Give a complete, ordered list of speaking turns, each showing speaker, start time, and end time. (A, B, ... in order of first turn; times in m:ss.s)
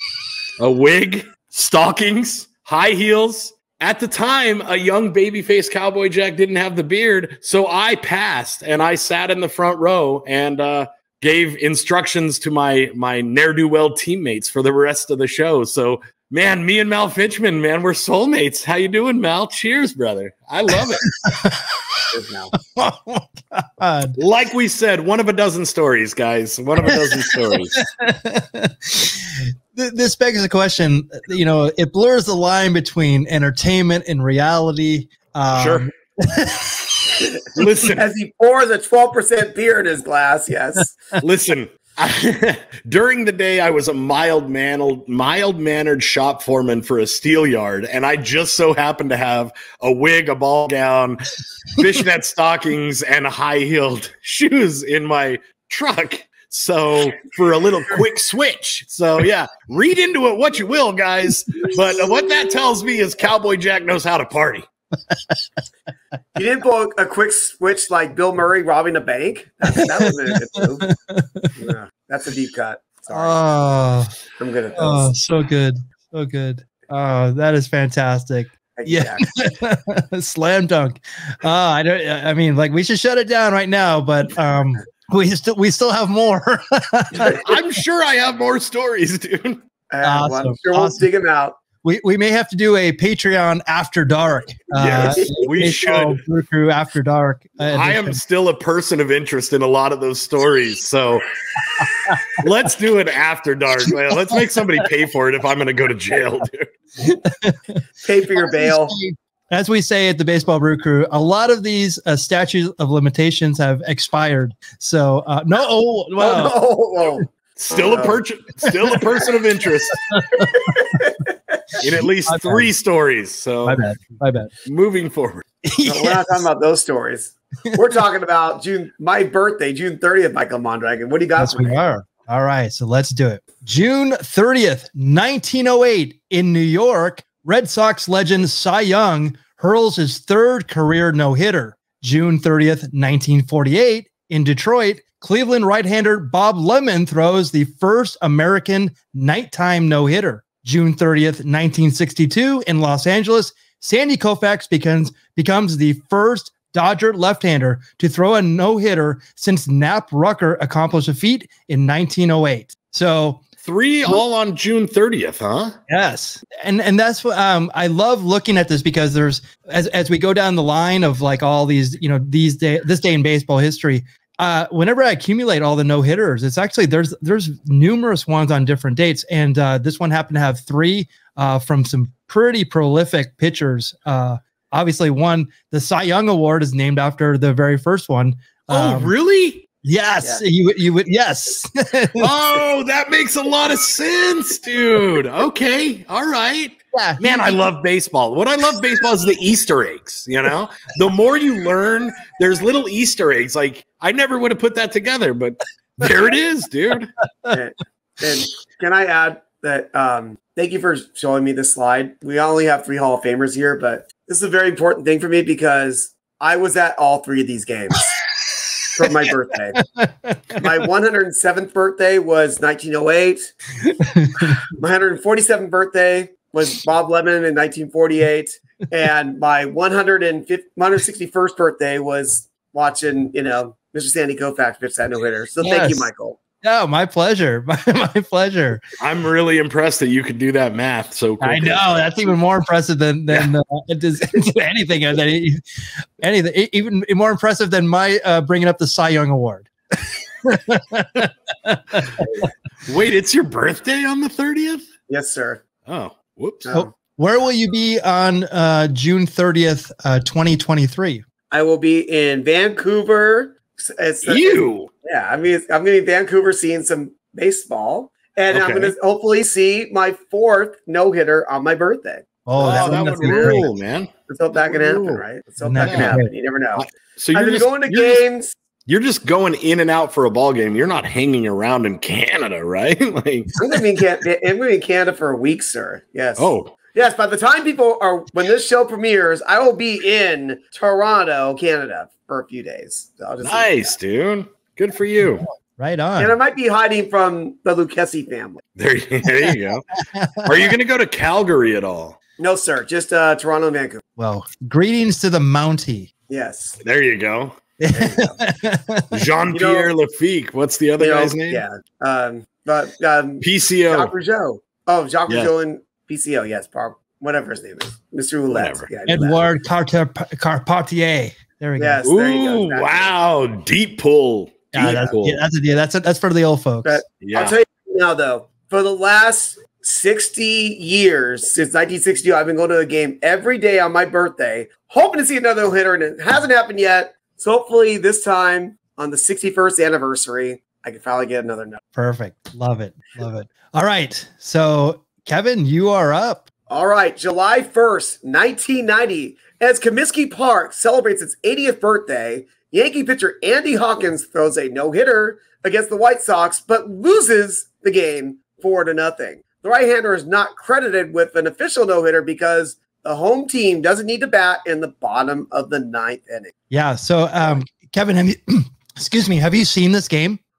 0:00.6-0:21.1 A
0:21.2-0:21.9 B
0:22.1-0:22.5 C
0:22.7-0:24.2 B
0:24.2-0:27.8 A
0:26.9-0:37.2 B
0:35.6-0:35.9 A
0:37.5-0:38.0 A
0:38.0-0:41.0 C
0:41.2-1:04.6 A
1:05.1-1:05.4 B
1:06.4-1:10.8 C
1:10.0-1:11.7 B
1:11.6-1:13.4 C
1:13.1-1:14.1 B
1:14.4-1:15.1 C
1:14.8-1:27.4 B
1:18.8-1:19.2 C
1:27.4-1:29.6 A
1:29.9-1:31.6 C
1:30.0-1:31.1 B
1:31.8-1:38.2 B
1:34.8-1:36.2 A
1:35.0-1:35.5 C
1:37.7-1:41.3 A
1:42.4-1:46.7 A
1:47.0-1:47.8 B
1:48.0-1:49.0 C
1:48.4-1:56.6 B
1:56.2-1:58.2 C
1:57.6-2:00.0 A
2:00.1-2:01.0 B
2:00.4-2:01.8 C
2:01.8-2:03.8 A
2:01.8-2:02.7 B
2:03.6-2:04.5 B
2:04.6-2:05.4 A
2:05.6-2:06.4 B
2:05.8-2:11.8 C
2:11.4-2:43.4 B
2:43.6-2:45.8 A
2:45.9-3:09.1 B
3:08.7-3:09.7 A
3:09.8-3:12.3 B
3:12.2-3:27.1 A
3:16.9-3:17.6 B
3:27.5-3:38.2 C
3:38.9-3:39.8 C
3:39.8-3:40.6 B
3:40.6-3:43.5 C
3:43.8-3:44.5 B
3:44.4-3:56.4 C
3:55.6-3:56.1 B
3:56.6-3:58.8 B
3:59.0-4:01.9 A
4:01.4-4:12.5 B
4:12.9-4:14.9 A
4:15.1-4:15.6 C
4:15.9-4:16.7 A
4:16.6-4:16.9 C
4:16.7-4:21.2 B
4:21.5-4:33.7 C
4:24.2-4:24.9 A
4:28.5-4:28.9 A
4:32.5-4:33.6 B
4:32.6-4:34.1 A
4:34.3-4:38.5 C
4:34.6-4:35.2 A
4:35.6-4:36.3 B
4:35.8-4:36.2 A
4:36.8-4:38.2 A
4:38.9-4:43.6 A
4:43.6-4:54.0 C
4:46.4-4:46.7 A
4:53.4-4:55.4 A
4:55.7-4:56.4 B
4:56.2-4:58.6 C
4:58.8-4:59.8 A
5:00.1-5:00.7 B
5:00.4-5:02.2 A
5:02.4-5:04.0 C
5:04.2-5:06.1 B
5:06.3-5:06.8 C
5:06.8-5:07.6 A
5:07.8-5:09.1 B
5:07.9-5:08.4 C
5:09.1-5:11.6 A
5:09.5-5:09.9 C
5:11.0-5:19.4 C
5:13.4-5:14.1 A
5:18.5-5:18.9 A
5:19.1-5:22.0 B
5:21.8-5:23.1 C
5:22.0-5:25.4 A
5:24.7-5:27.0 B
5:24.8-5:25.1 C
5:26.8-5:41.8 C
5:27.2-5:27.6 A
5:42.0-5:46.5 B
5:46.7-6:06.5 C
6:06.7-6:10.4 B